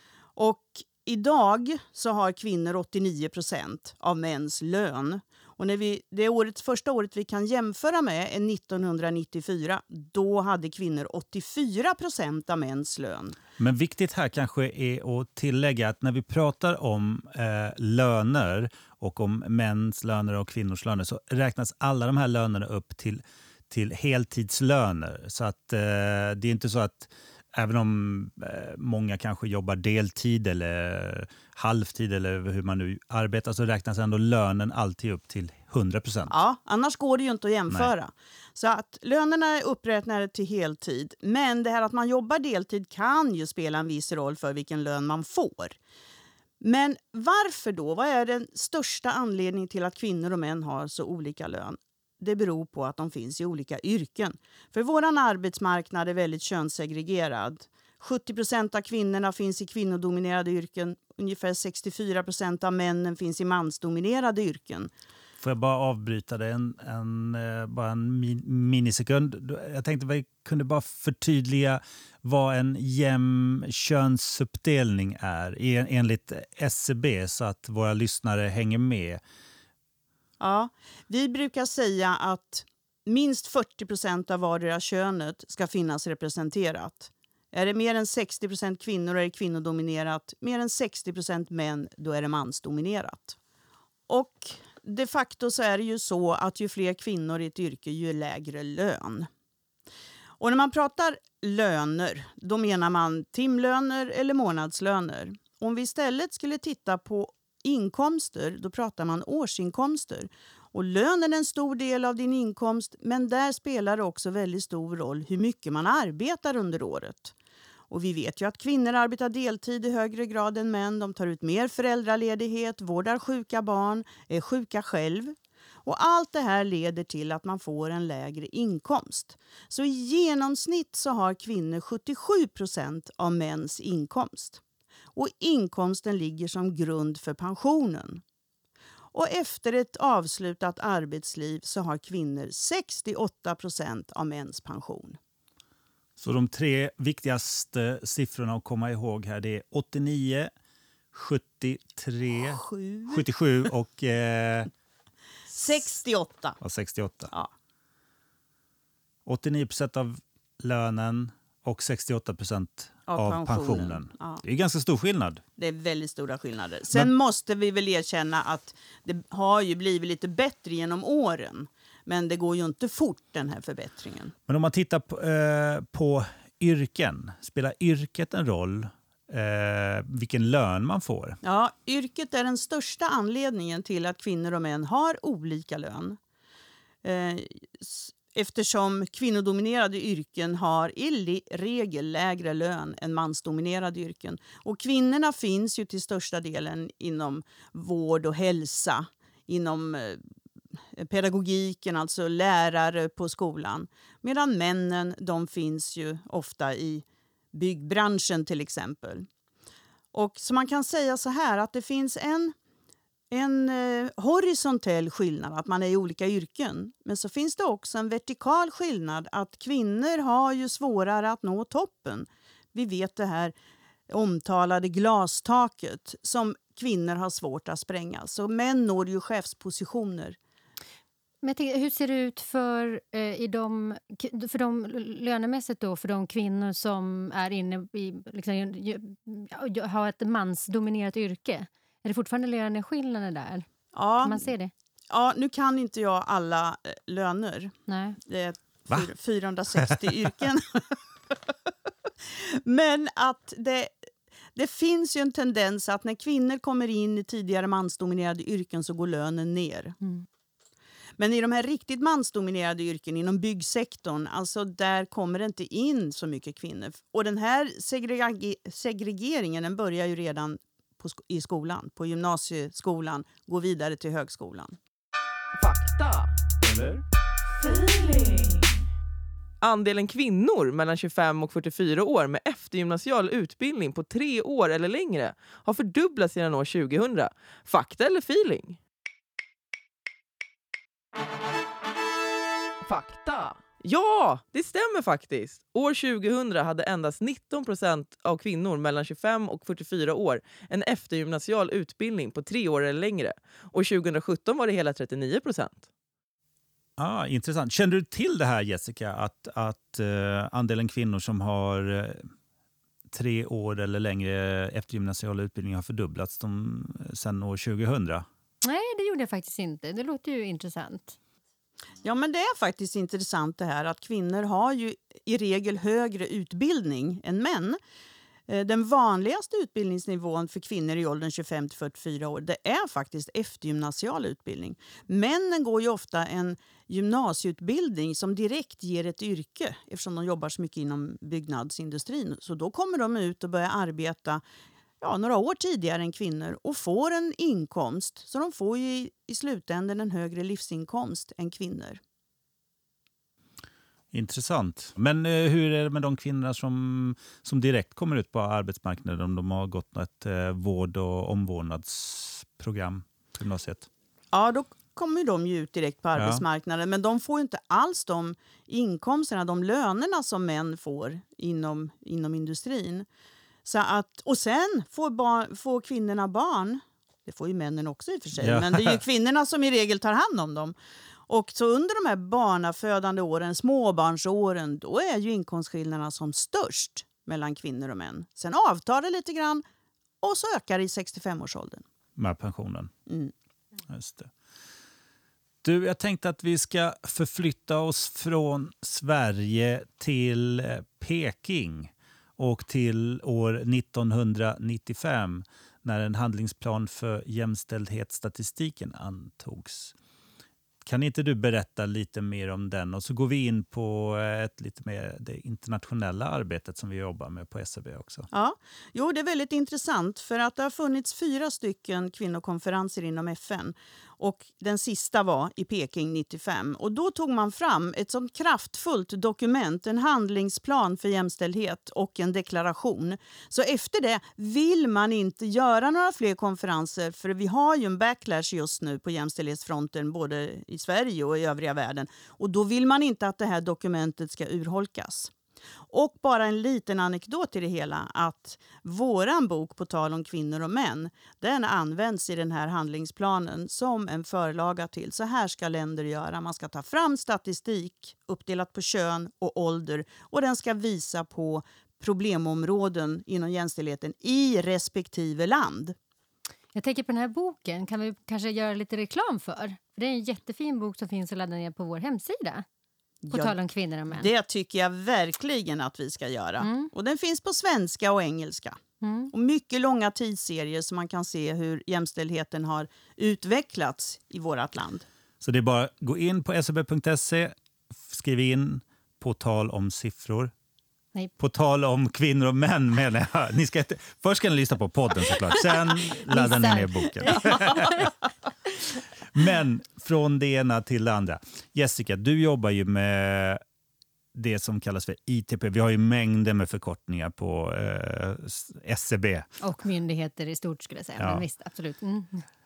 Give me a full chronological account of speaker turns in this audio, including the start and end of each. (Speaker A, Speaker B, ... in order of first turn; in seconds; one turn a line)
Speaker A: 0.4-13.4
Speaker B: 13.6-36.4
Speaker A: 36.3-45.8
Speaker A: 46.6-64.9
Speaker B: 65.4-79.2
Speaker A: 80.4-93.4
Speaker A: 94.1-99.3
Speaker A: 100.4-117.3
Speaker A: 117.9-125.3
Speaker A: 125.9-134.6
Speaker A: 135.2-138.2
Speaker A: 139.1-145.2
Speaker B: 146.2-150.5
Speaker B: 151.1-154.7
Speaker A: 152.4-153.2
Speaker A: 155.5-156.6
Speaker B: 156.6-157.3
Speaker B: 159.3-165.4
Speaker A: 163.1-164.4
Speaker A: 165.6-174.3
Speaker B: 174.5-181.4
Speaker A: 181.4-186.2
Speaker A: 187.0-200.2
Speaker A: 200.9-209.3
Speaker A: 210.1-212.5
Speaker A: 213.3-223.5
Speaker A: 224.1-230.4
Speaker C: 231.4-243.7
Speaker A: 243.9-244.5
Speaker C: 244.2-244.7
Speaker A: 245.1-250.9
Speaker C: 247.9-248.2
Speaker A: 252.3-253.9
Speaker A: 254.6-260.0
Speaker A: 261.2-274.8
Speaker D: 275.6-277.0
Speaker D: 277.6-278.7
Speaker D: 279.6-288.8
Speaker D: 292.9-305.9
Speaker B: 307.0-312.3
Speaker B: 313.1-318.3
Speaker C: 318.6-321.2
Speaker A: 322.0-327.8
Speaker A: 328.5-344.4
Speaker A: 345.0-352.0
Speaker B: 354.1-363.9
Speaker A: 364.3-373.1
Speaker B: 366.2-366.4
Speaker A: 373.6-380.8
Speaker B: 378.4-379.0
Speaker A: 381.3-389.6
Speaker A: 390.2-391.8
Speaker B: 392.2-392.9
Speaker A: 393.1-393.3
Speaker B: 393.9-394.3
Speaker B: 395.6-409.9
Speaker B: 410.8-418.3
Speaker A: 418.3-445.3
Speaker A: 445.9-465.9
Speaker C: 466.8-472.6
Speaker A: 473.2-473.5
Speaker C: 473.3-474.3
Speaker A: 474.1-478.8
Speaker C: 476.6-476.9
Speaker C: 479.0-479.3
Speaker A: 479.3-485.1
Speaker B: 485.4-487.6
Speaker B: 488.1-490.5
Speaker B: 491.4-498.1
Speaker C: 496.3-498.0
Speaker B: 499.3-503.6
Speaker B: 504.3-509.5
Speaker C: 509.6-512.5
Speaker B: 511.2-511.4